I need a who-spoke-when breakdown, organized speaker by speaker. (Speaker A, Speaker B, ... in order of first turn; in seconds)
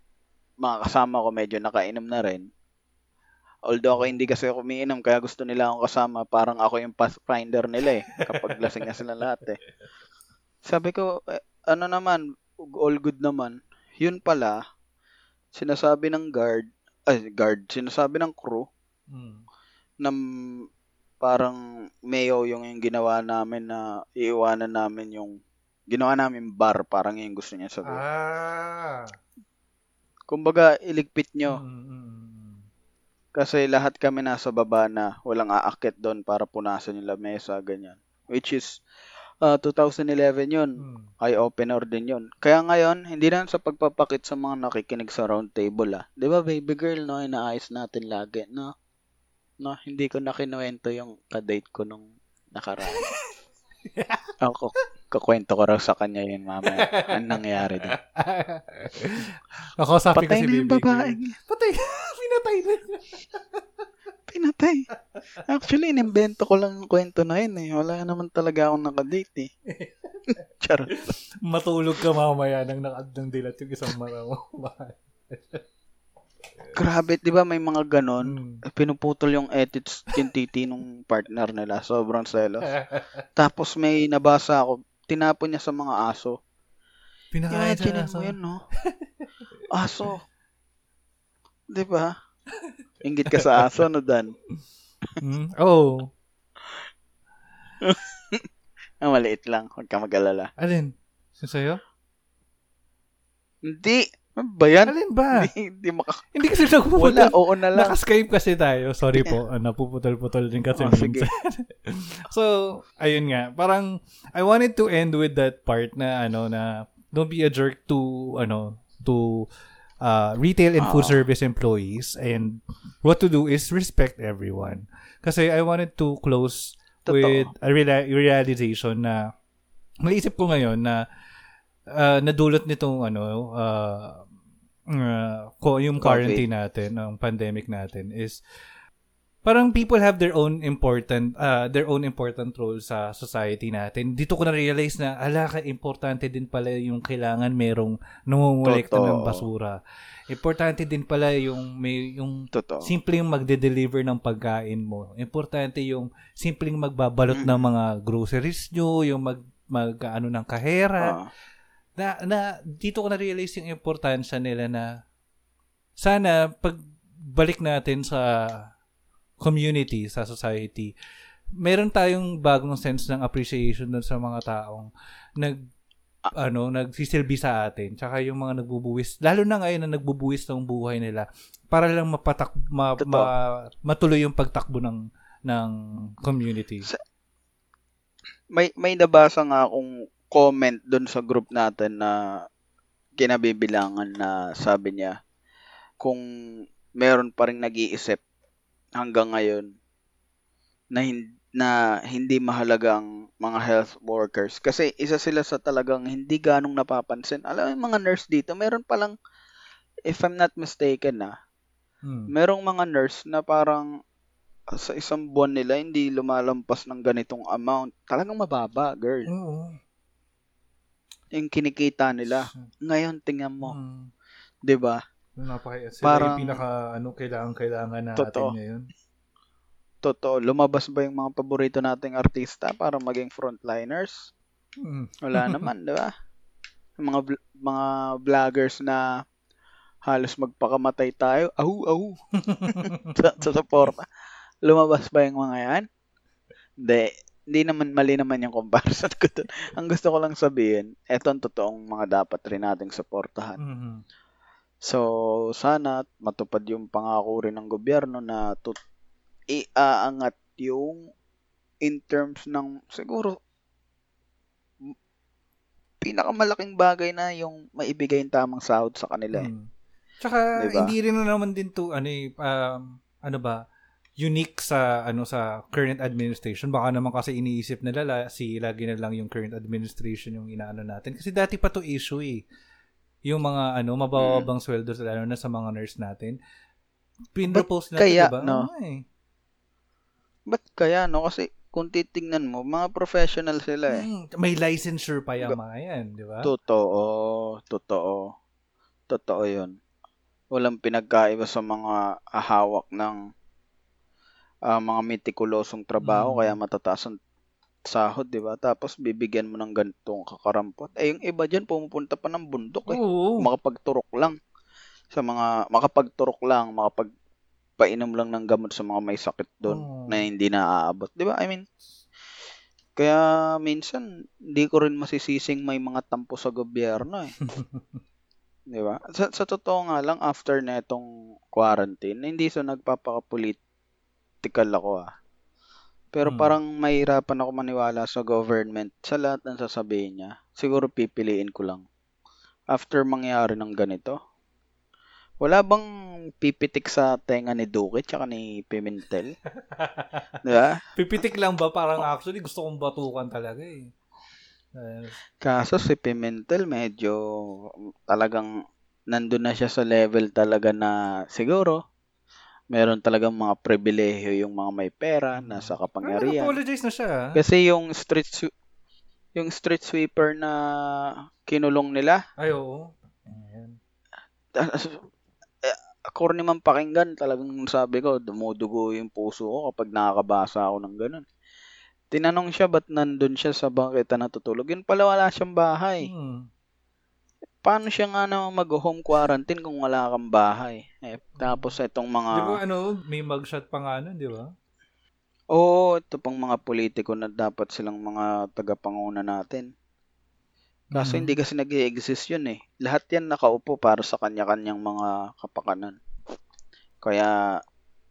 Speaker A: 0.6-2.5, 3.7-9.6, 10.6-12.2, 12.7-14.6, 15.5-18.6, 21.2-21.6, 22.1-25.4, 25.9-28.0, 30.3-31.6, 33.4-38.8, 39.4-48.7, 49.6-53.1, 54.4-58.0, 60.1-61.3, 64.3-64.8, 65.4-69.5, 70.6-70.9, 76.7-82.7, 83.3-86.3, 87.5-88.6, 89.7-90.2, 91.7-92.1, 93.0-94.3, 97.8-98.5, 99.0-100.5, 103.6-106.2, 106.9-108.0, 110.8-111.3, 120.8-121.2, 127.1-127.5, 136.0-136.4, 148.6-149.4, 152.5-152.9, 157.3-157.6, 161.0-161.3, 183.0-183.3, 188.5-192.2, 193.2-195.1, 197.0-198.2, 199.0-199.7, 200.9-209.1, 210.1-211.3, 212.3-213.9, 214.8-219.3, 221.3-223.7, 224.7-225.0, 226.0-226.6, 228.2-228.5, 230.0-234.3, 235.2-236.1, 237.0-239.1, 240.1-244.1, 244.7-245.8, 246.8-253.6, 254.8-258.8, 259.5-261.0, 261.8-263.4, 266.0-269.5, 270.6-270.9, 284.2-284.4, 287.5-288.7, 290.5-294.1, 296.4-298.3, 299.1-299.7, 300.5-303.2, 304.7-307.2, 307.9-314.4, 315.1-317.1, 317.8-321.6, 322.9-327.3, 328.7-333.6, 334.4-335.1, 336.1-341.8, 342.7-344.1, 345.4-345.9, 346.4-349.3, 350.4-350.8, 355.4-358.5, 359.1-361.8, 362.7-366.5, 367.3-368.5, 369.4-372.2, 374.5-375.0, 375.6-381.2, 382.1-386.1, 387.6-392.6, 395.5-399.7, 400.9-406.0, 407.0-407.4
Speaker B: 3.9-4.3, 8.1-8.7, 19.1-19.4, 27.9-29.1, 31.5-32.6, 40.8-41.1, 52.8-53.2, 53.9-54.3, 56.6-63.6, 69.7-70.2, 70.9-75.6, 78.3-78.6, 82.7-83.1, 87.3-89.5, 95.2-96.1, 100.6-101.8, 104.9-105.5, 106.3-119.5, 120.0-129.3, 130.0-131.0, 131.9-134.2, 134.9-138.4, 139.4-149.8, 150.3-161.2, 162.0-164.9, 166.0-168.7, 169.4-170.9, 171.6-174.9, 175.4-175.6, 176.3-186.9, 212.0-212.3, 219.3-219.8, 222.3-222.7, 223.6-224.1, 225.4-228.9, 234.8-235.7, 242.4-243.1, 253.6-254.0, 269.3-269.7, 270.2-273.6, 274.2-282.4, 283.3-286.4, 287.3-289.0, 293.9-296.5, 306.0-306.6, 312.9-313.4, 319.7-320.2, 327.4-328.0, 336.2-336.5, 349.6-350.2, 350.9-353.9, 354.8-355.2, 365.4-367.4, 372.4-373.8, 386.0-386.5, 391.4-391.7, 392.3-394.4, 400.9-401.4